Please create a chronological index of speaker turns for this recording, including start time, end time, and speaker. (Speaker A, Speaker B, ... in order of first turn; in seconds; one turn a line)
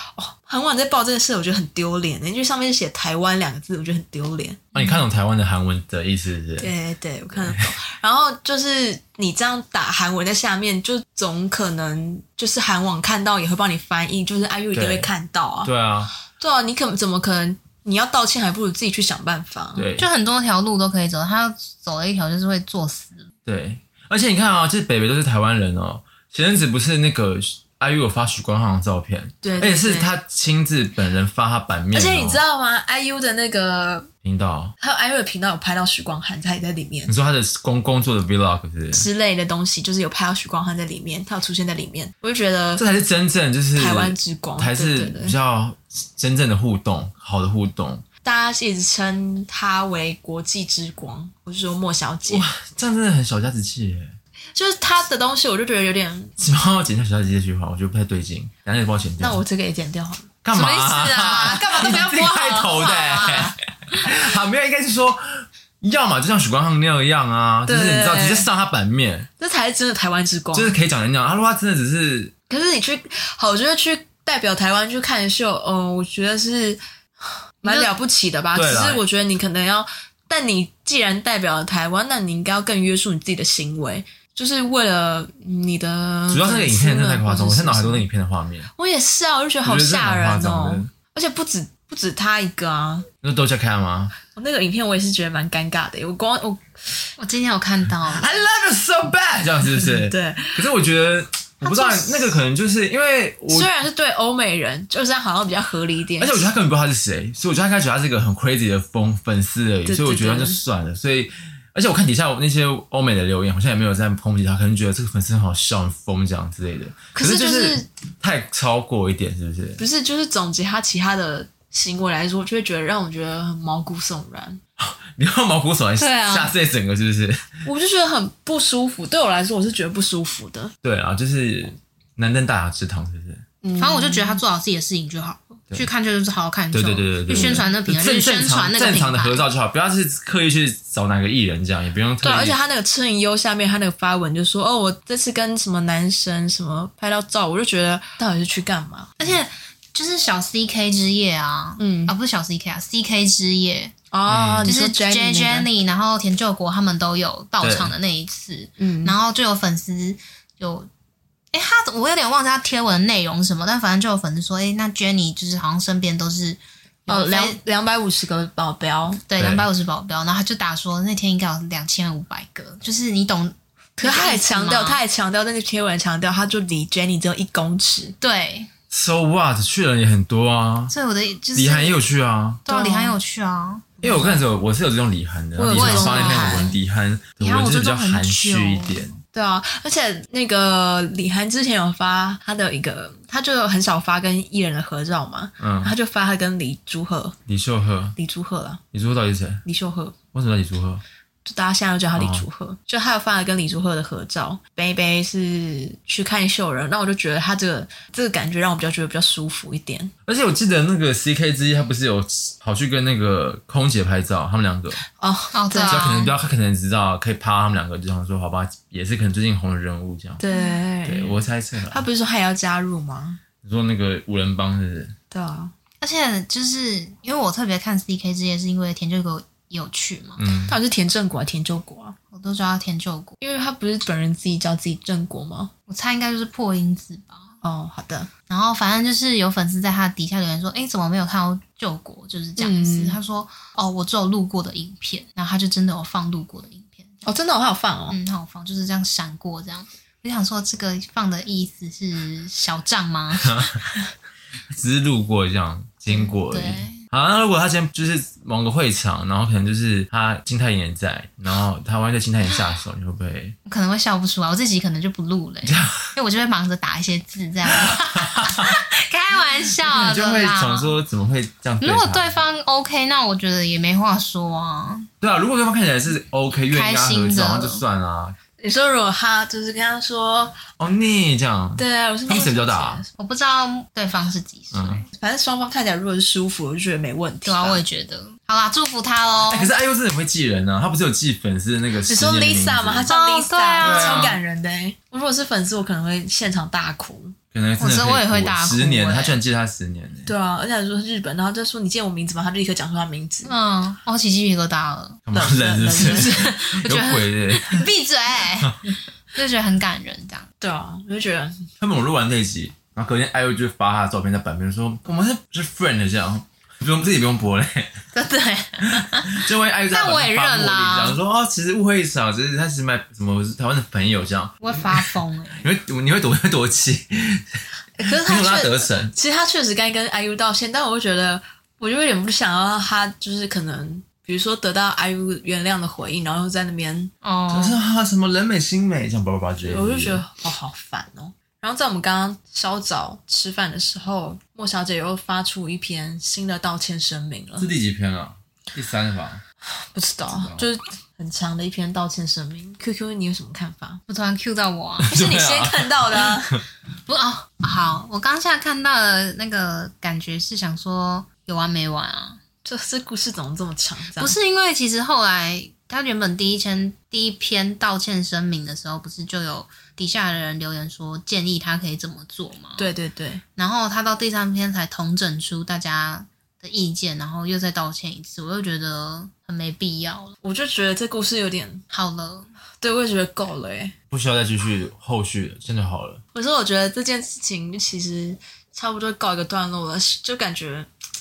Speaker A: 0.1-4.8
Speaker B: 4.7-6.7
Speaker A: 6.6-15.7
Speaker B: 7.3-7.6
Speaker B: 14.7-15.1
Speaker B: 15.6-16.1
Speaker A: 16.4-19.9
Speaker B: 19.8-20.1
Speaker C: 20.0-23.3
Speaker B: 23.4-32.4
Speaker A: 29.4-30.1
Speaker A: 31.9-34.1
Speaker B: 34.2-34.7
Speaker A: 34.8-37.1
Speaker B: 37.1-39.1
Speaker A: 38.9-42.8
Speaker B: 42.8-48.0
Speaker A: 43.7-45.4
Speaker A: 48.2-52.5
Speaker B: 52.3-54.1
Speaker A: 54.5-56.3
Speaker B: 56.4-59.4
Speaker A: 59.2-60.3
Speaker B: 60.4-69.3
Speaker C: 60.5-63.5
Speaker A: 61.2-62.3
Speaker A: 63.1-63.4
Speaker A: 67.7-68.5
Speaker A: 69.4-70.8
Speaker B: 70.5-72.3
Speaker A: 72.5-76.8
Speaker A: 77.6-88.0
Speaker B: 78.5-79.0
Speaker B: 86.3-88.7
Speaker A: 88.7-93.1
Speaker B: 89.6-90.9
Speaker B: 93.2-94.1
Speaker A: 94.2-96.9
Speaker C: 97.2-98.3
Speaker B: 98.0-103.7
Speaker A: 99.8-100.6
Speaker A: 101.6-102.4
Speaker A: 103.5-106.5
Speaker B: 106.2-119.8
Speaker A: 109.8-110.6
Speaker A: 117.1-117.9
Speaker A: 119.8-124.6
Speaker B: 124.8-127.5
Speaker C: 126.0-126.5
Speaker A: 127.6-130.7
Speaker B: 130.8-133.4
Speaker A: 133.6-134.4
Speaker C: 133.8-139.4
Speaker B: 136.7-142.6
Speaker A: 137.3-137.7
Speaker A: 142.2-149.2
Speaker C: 149.2-153.9
Speaker A: 151.8-152.2
Speaker A: 154.1-155.7
Speaker B: 154.3-154.7
Speaker C: 154.6-160.9
Speaker B: 157.6-157.9
Speaker A: 158.8-159.2
Speaker C: 161.5-167.6
Speaker A: 167.1-169.2
Speaker C: 169.2-175.0
Speaker B: 169.4-169.7
Speaker A: 174.0-178.1
Speaker C: 178.2-178.7
Speaker B: 178.9-180.9
Speaker C: 180.9-182.0
Speaker B: 181.5-182.7
Speaker C: 182.7-184.0
Speaker A: 182.7-183.2
Speaker B: 184.0-189.2
Speaker A: 184.0-184.4
Speaker A: 185.6-186.8
Speaker C: 185.7-186.8
Speaker A: 187.4-197.4
Speaker B: 195.6-195.9
Speaker B: 197.5-198.2
Speaker A: 198.2-198.8
Speaker B: 198.9-199.6
Speaker A: 199.6-200.2
Speaker B: 200.3-201.0
Speaker A: 201.4-210.1
Speaker B: 202.1-202.4
Speaker B: 210.2-215.0
Speaker A: 215.1-216.1
Speaker C: 215.5-216.3
Speaker B: 215.8-220.4
Speaker A: 220.4-223.4
Speaker B: 221.0-222.0
Speaker B: 223.6-225.1
Speaker A: 225.3-225.7
Speaker C: 226.0-230.4
Speaker B: 230.4-230.7
Speaker A: 230.7-232.1
Speaker C: 232.3-233.4
Speaker A: 233.4-235.7
Speaker C: 235.9-237.5
Speaker A: 237.6-238.3
Speaker C: 238.5-247.2
Speaker A: 242.6-243.2
Speaker A: 247.2-248.2
Speaker C: 248.1-253.8
Speaker B: 253.5-253.7
Speaker B: 254.7-263.6
Speaker C: 256.1-257.0
Speaker C: 263.6-270.9
Speaker B: 265.6-266.1
Speaker B: 267.7-268.7
Speaker B: 269.8-272.4
Speaker C: 271.8-275.1
Speaker B: 275.2-278.4
Speaker C: 276.7-277.8
Speaker A: 278.6-280.6
Speaker B: 280.8-283.0
Speaker A: 281.8-283.1
Speaker C: 283.2-285.1
Speaker B: 284.7-285.0
Speaker A: 285.1-287.8
Speaker C: 287.4-289.7
Speaker B: 289.5-293.1
Speaker A: 292.1-297.4
Speaker C: 293.1-294.3
Speaker B: 293.8-294.4
Speaker B: 297.5-300.3
Speaker C: 297.8-299.4
Speaker A: 300.2-303.5
Speaker C: 303.4-305.2
Speaker B: 305.2-307.9
Speaker A: 305.3-306.5
Speaker C: 306.0-310.5
Speaker A: 310.6-311.6
Speaker B: 311.8-318.1
Speaker C: 318.1-321.2
Speaker B: 318.8-329.1
Speaker C: 324.6-325.7
Speaker A: 328.0-337.1
Speaker C: 337.2-337.8
Speaker B: 337.5-340.2
Speaker A: 339.6-347.7
Speaker B: 347.6-349.4
Speaker A: 349.7-354.0
Speaker B: 350.3-350.7
Speaker C: 354.1-355.1
Speaker B: 355.0-356.6
Speaker A: 355.1-356.6
Speaker C: 357.1-362.4
Speaker A: 362.6-364.3
Speaker C: 364.2-372.9
Speaker A: 372.8-373.4
Speaker C: 373.6-380.4
Speaker A: 380.4-381.8
Speaker C: 381.9-382.5
Speaker A: 382.8-383.9
Speaker B: 384.1-386.2
Speaker A: 386.3-390.9